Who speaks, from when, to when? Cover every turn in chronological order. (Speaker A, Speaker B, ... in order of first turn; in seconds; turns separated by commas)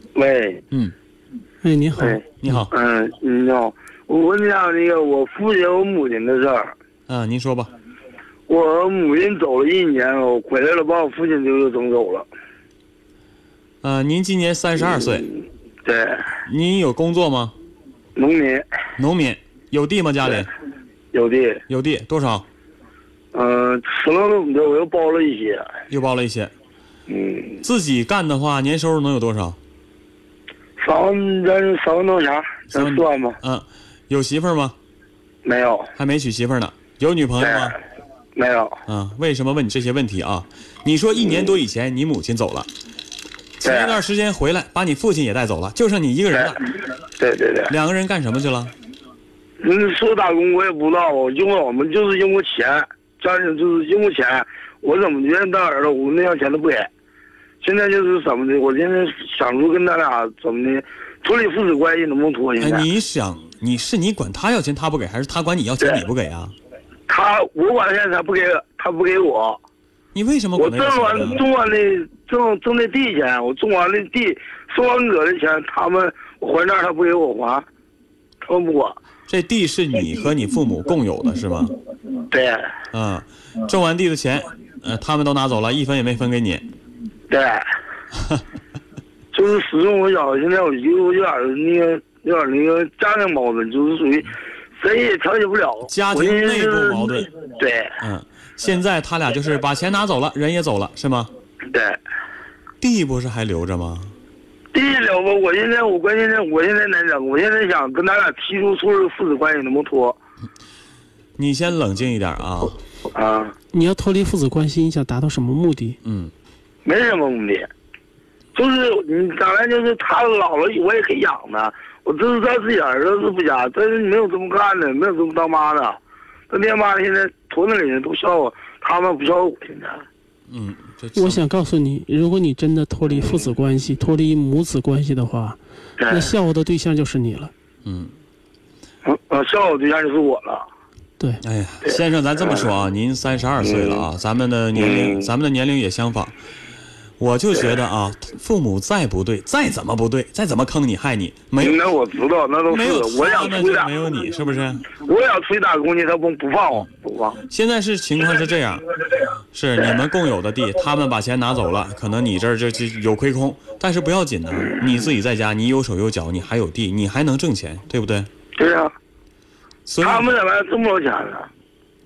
Speaker A: 0.1-0.6, Speaker B: 1.6-2.2, Speaker A: 2.0-6.7, Speaker C: 2.4-2.7, Speaker C: 7.1-7.7, Speaker A: 8.5-12.3, Speaker C: 13.8-15.3, Speaker A: 14.8-15.2, Speaker A: 15.8-16.3, Speaker C: 16.4-17.5, Speaker A: 18.1-18.6, Speaker C: 19.0-20.5, Speaker A: 21.1-21.6, Speaker C: 21.7-22.4, Speaker A: 23.3-25.7, Speaker C: 25.9-26.5, Speaker A: 27.1-27.6, Speaker C: 27.6-29.6, Speaker A: 30.8-33.4, Speaker C: 32.7-34.7, Speaker A: 35.4-35.9, Speaker C: 35.9-37.8, Speaker A: 37.4-37.7, Speaker A: 38.4-38.8, Speaker C: 38.9-42.7, Speaker C: 43.6-46.6, Speaker A: 43.6-44.0, Speaker A: 46.3-46.6, Speaker A: 47.2-47.7, Speaker C: 47.7-48.7, Speaker A: 49.6-56.9, Speaker A: 57.6-62.9, Speaker C: 62.6-66.5, Speaker A: 67.1-69.6, Speaker C: 70.1-71.4, Speaker A: 70.5-77.6, Speaker A: 78.5-79.0, Speaker C: 79.3-81.7, Speaker A: 82.3-82.7, Speaker C: 82.9-86.6, Speaker A: 87.3-87.7, Speaker A: 89.3-98.0, Speaker C: 95.8-97.3, Speaker C: 98.0-101.3, Speaker A: 101.7-102.0, Speaker C: 102.8-104.1, Speaker A: 104.7-110.2, Speaker C: 111.4-112.8, Speaker A: 113.1-113.5, Speaker B: 113.7-116.0, Speaker C: 116.0-116.3, Speaker A: 116.8-117.7, Speaker A: 118.5-126.0, Speaker A: 126.5-130.0, Speaker C: 130.5-131.4, Speaker B: 131.1-137.5, Speaker A: 133.1-133.5, Speaker A: 136.0-136.3, Speaker C: 137.8-138.1, Speaker A: 139.0-140.7, Speaker C: 141.4-146.3, Speaker A: 141.8-142.7, Speaker A: 143.6-144.1, Speaker A: 144.7-145.3, Speaker C: 147.2-151.8, Speaker A: 151.6-154.1, Speaker C: 152.7-154.9, Speaker A: 154.9-157.4, Speaker C: 157.4-168.3, Speaker A: 159.8-160.0, Speaker A: 164.6-165.1, Speaker A: 168.6-168.9, Speaker C: 169.8-170.3, Speaker A: 170.0-171.5